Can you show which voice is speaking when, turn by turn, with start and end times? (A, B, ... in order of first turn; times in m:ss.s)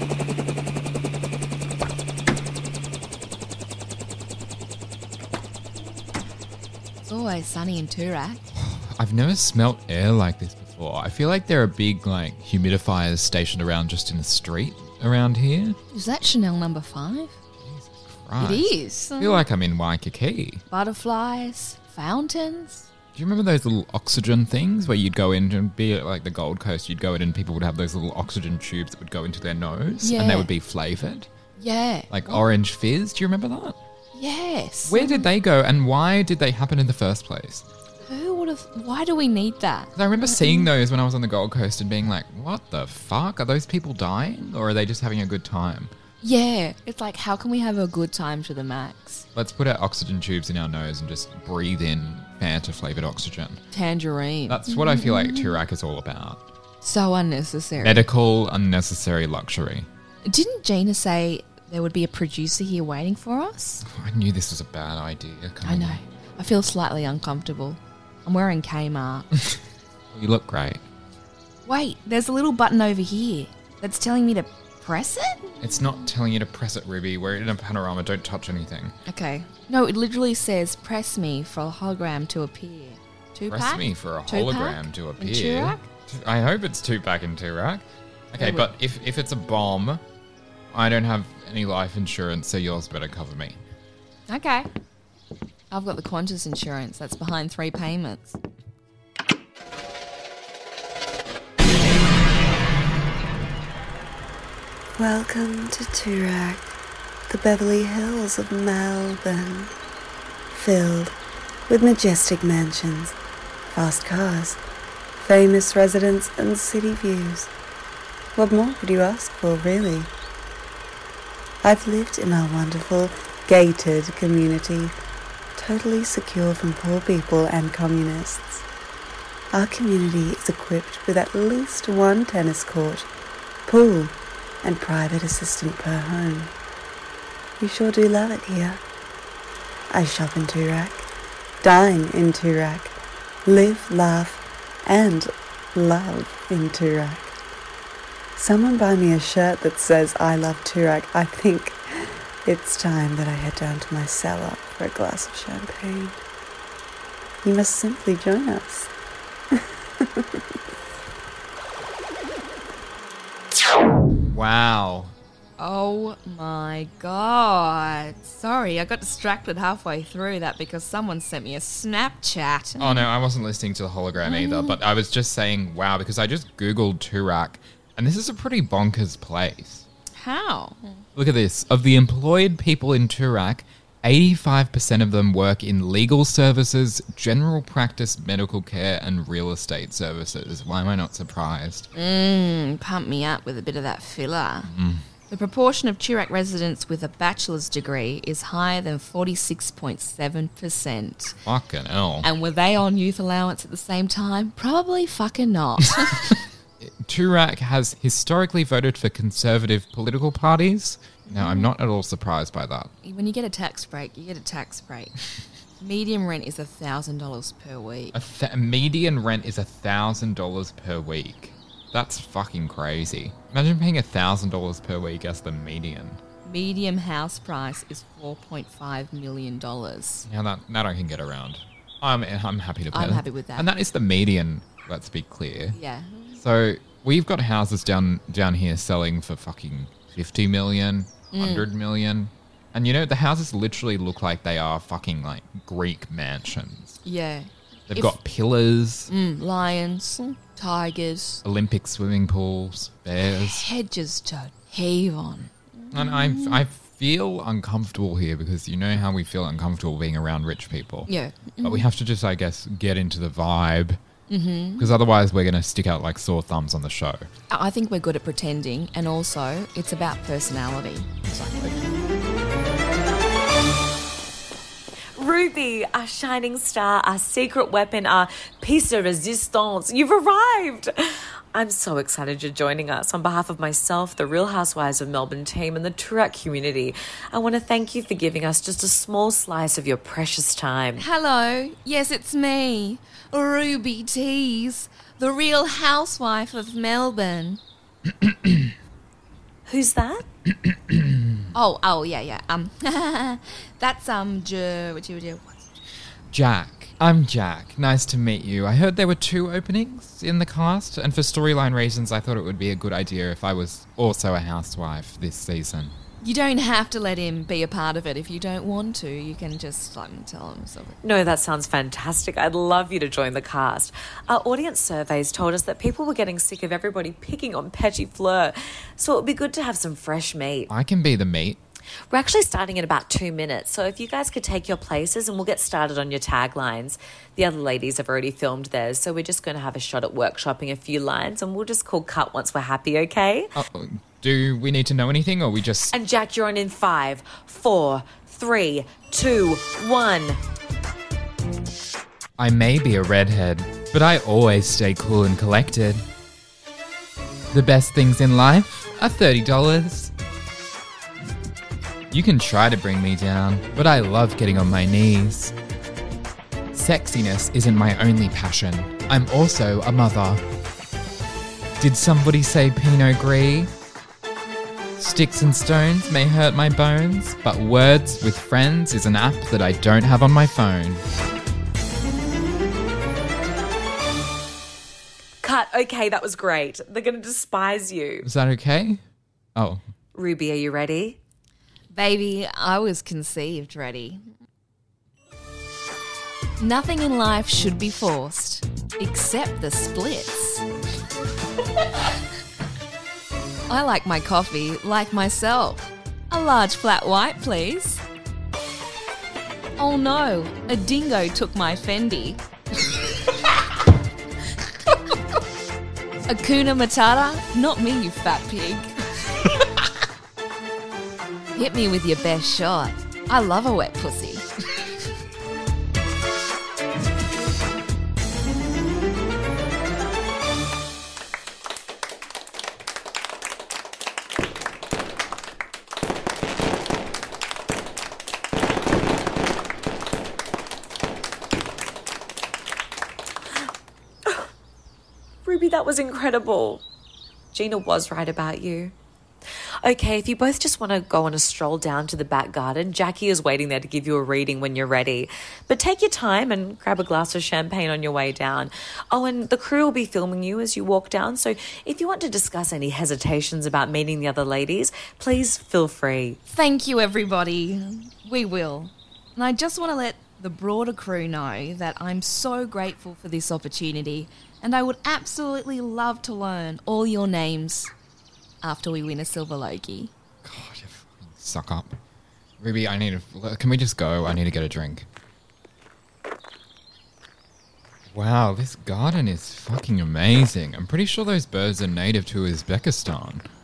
0:07.0-0:08.4 A
0:08.6-0:15.8 B
0:15.9-0:17.3 A
0:17.6-0:20.6 B
0:18.4-0:19.4 A
0:20.7-0:22.9 A
0:23.2-0:31.3 B
0:30.0-0:30.5 A
0:31.6-0:32.4 A
0:32.1-0:33.8 B
0:34.2-0:35.3 A
0:34.9-0:37.7 B
0:38.0-0:40.7 A
0:40.0-0:45.9 B
0:46.2-0:49.3 A
0:49.4-0:53.6 B
0:53.7-0:55.6 A
0:54.5-0:56.4 B
0:56.8-0:58.0 A
0:57.8-0:59.9 B
1:00.2-1:03.8 A
1:03.8-1:06.0 B
1:05.6-1:09.3 A
1:10.1-1:10.8 B
1:11.7-1:15.7 A
1:15.6-1:19.0 B
1:19.1-1:25.8 A
1:23.5-1:30.0 B
1:28.4-1:28.7 A
1:30.7-1:33.6 B
1:34.3-1:34.7 A
1:35.7-1:38.4 A
1:45.0-1:46.8 C
1:47.3-1:49.7 C
1:50.5-1:51.2 C
1:51.7-1:53.2 C
1:53.7-1:54.6 C
1:55.2-1:57.5 C
1:58.4-2:00.1 C
2:01.6-2:05.0 C
2:05.6-2:08.6 C
2:09.5-2:13.1 C
2:13.7-2:16.5 C
2:17.6-2:18.8 C
2:19.9-2:21.1 C
2:21.6-2:27.4 C
2:28.4-2:31.8 C
2:32.4-2:36.2 C
2:37.4-2:38.9 C
2:39.6-2:40.4 C
2:44.3-2:45.1 B
2:45.6-2:53.1 A
2:52.8-2:59.9 B
2:54.2-2:54.8 A
3:00.2-3:01.0 A
3:01.2-3:11.9 B
3:12.0-3:14.7 A
3:14.7-3:15.0 B
3:15.3-3:21.4 A
3:21.4-3:22.3 B
3:22.2-3:26.3 A
3:26.8-3:32.9 B
3:31.3-3:31.7 A
3:33.0-3:35.1 A
3:35.8-3:38.1 A
3:38.1-3:46.2 B
3:46.4-3:50.3 A
3:50.3-3:55.8 B
3:52.9-3:53.7 A
3:55.7-3:56.4 A
3:56.4-4:07.0 B
4:01.3-4:01.7 A
4:07.0-4:08.2 A
4:07.9-4:09.1 B
4:09.1-4:11.4 A
4:11.4-4:13.7 B
4:13.3-4:16.6 A
4:15.9-4:21.1 B
4:21.1-4:21.9 A
4:21.6-4:24.0 B
4:24.3-4:24.9 A
4:24.8-4:27.3 B
4:27.5-4:31.1 A
4:31.2-4:31.8 B
4:35.2-4:51.1 D
4:51.0-4:57.6 A
4:58.2-4:58.7 B
4:59.7-5:00.2 D
5:00.6-5:01.4 B
5:01.5-5:05.7 A
5:06.3-5:16.0 B
5:16.2-5:21.0 A
5:21.0-5:30.7 D
5:30.7-5:31.6 B
5:32.1-5:43.5 D
5:43.6-5:45.9 B
5:45.9-5:50.4 D
5:52.4-5:56.0 B
5:57.5-6:00.1 B
6:02.1-6:05.5 B
6:06.7-6:10.4 B
6:11.8-6:13.7 B
6:15.0-6:21.0 B
6:25.4-6:28.3 D
6:28.2-6:29.0 B
6:29.6-6:29.8 B
6:30.2-6:31.2 D
6:31.9-6:34.2 A
6:36.6-6:40.6 A
6:43.7-6:48.0 A
6:49.8-6:52.4 A
6:56.3-6:58.9 A
7:01.6-7:04.5 A
7:25.4-7:26.8 D
7:27.5-7:28.9 D
7:29.8-7:46.4 D
7:46.5-7:57.9 A
7:58.6-8:00.1 A
8:00.4-8:02.0 B
8:02.6-8:05.1 B
8:08.1-8:13.4 B